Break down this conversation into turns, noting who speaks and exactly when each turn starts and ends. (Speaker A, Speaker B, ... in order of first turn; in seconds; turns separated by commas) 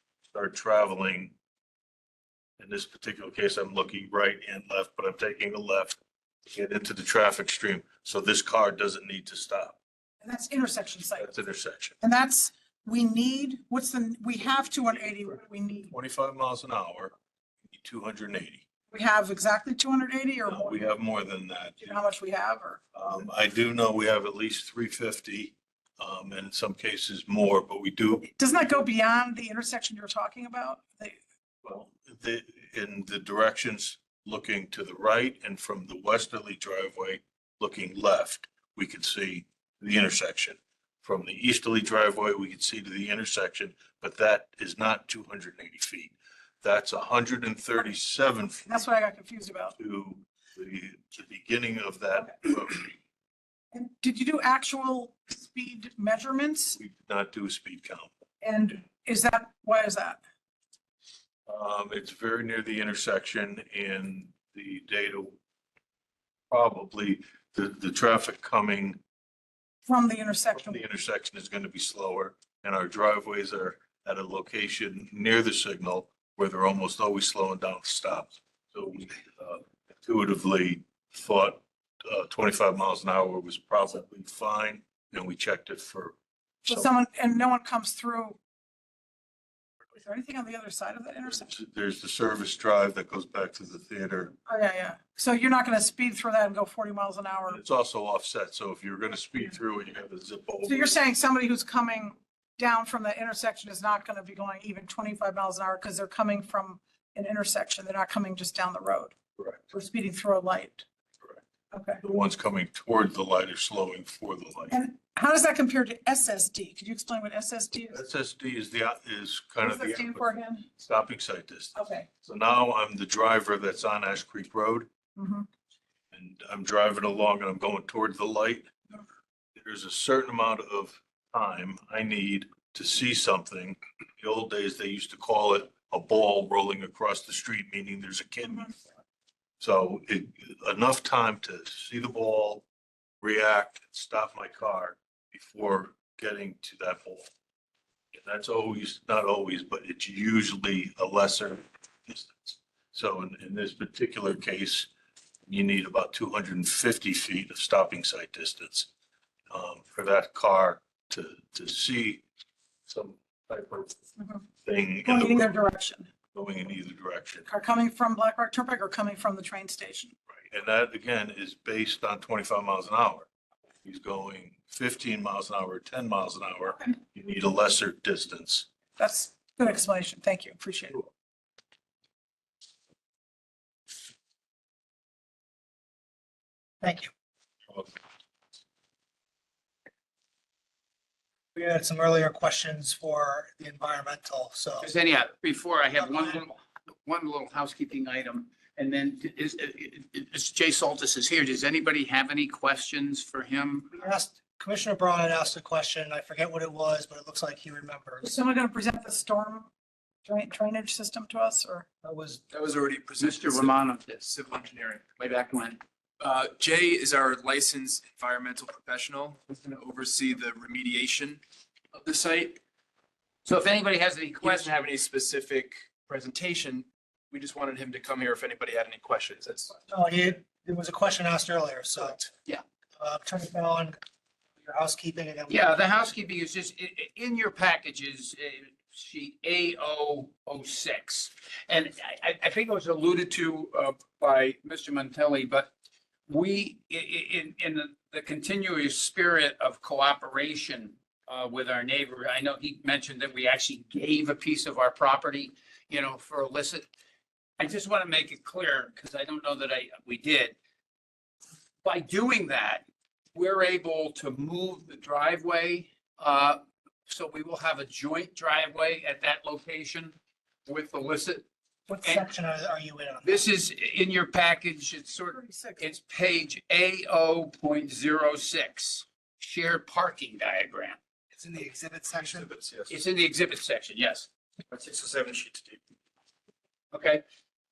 Speaker A: 0.3-1.3, Speaker A: 2.6-9.8, Speaker B: 10.2-11.3, Speaker A: 11.1-12.0, Speaker B: 12.0-15.9, Speaker A: 15.9-17.1, Speaker A: 17.7-18.6, Speaker B: 18.9-20.9, Speaker A: 20.4-22.0, Speaker B: 21.8-22.8, Speaker A: 22.9-28.3, Speaker B: 28.2-31.1, Speaker A: 31.6-48.7, Speaker B: 48.7-49.7, Speaker A: 49.8-52.9, Speaker B: 53.7-56.8, Speaker A: 56.7-58.1, Speaker B: 58.4-60.2, Speaker A: 61.5-65.3, Speaker A: 66.5-69.0, Speaker B: 69.9-70.8, Speaker A: 70.5-86.2, Speaker B: 86.6-88.4, Speaker B: 89.9-91.5, Speaker A: 91.3-94.3, Speaker B: 94.5-97.6, Speaker A: 97.5-100.9, Speaker B: 100.6-109.1, Speaker A: 109.4-109.6, Speaker B: 109.7-110.8, Speaker B: 111.7-112.0, Speaker A: 112.0-114.7, Speaker B: 114.7-118.0, Speaker A: 117.9-124.9, Speaker B: 119.6-120.7, Speaker B: 121.7-122.1, Speaker B: 125.2-125.5, Speaker A: 126.1-128.7, Speaker A: 129.6-138.8, Speaker A: 139.6-142.7, Speaker A: 143.2-147.3, Speaker A: 148.1-154.9, Speaker A: 155.4-158.9, Speaker A: 159.5-162.2, Speaker A: 162.9-163.9, Speaker B: 164.2-164.4, Speaker A: 164.6-165.6, Speaker B: 165.0-166.1, Speaker A: 166.3-167.5, Speaker B: 167.5-170.1, Speaker A: 170.5-173.3, Speaker A: 173.8-178.7, Speaker B: 179.0-181.1, Speaker C: 186.8-187.1, Speaker C: 191.5-194.9, Speaker D: 194.8-203.9, Speaker C: 196.0-196.4, Speaker C: 203.9-208.3, Speaker B: 208.2-209.7, Speaker B: 210.2-211.8, Speaker C: 212.0-212.4, Speaker E: 212.5-215.2, Speaker D: 213.2-214.2, Speaker D: 215.2-215.8, Speaker E: 216.2-221.4, Speaker E: 221.9-222.6, Speaker D: 223.4-224.7, Speaker E: 224.4-229.8, Speaker C: 229.9-232.3, Speaker C: 233.0-234.0, Speaker C: 234.6-236.1, Speaker D: 235.5-245.7, Speaker D: 246.3-256.9, Speaker D: 257.6-260.6, Speaker D: 261.8-270.1, Speaker D: 270.6-271.4, Speaker C: 271.9-273.4, Speaker D: 273.2-281.0, Speaker B: 275.2-275.9, Speaker C: 281.3-282.5, Speaker E: 282.2-282.9, Speaker D: 282.9-284.3, Speaker E: 284.7-285.8, Speaker D: 286.9-287.2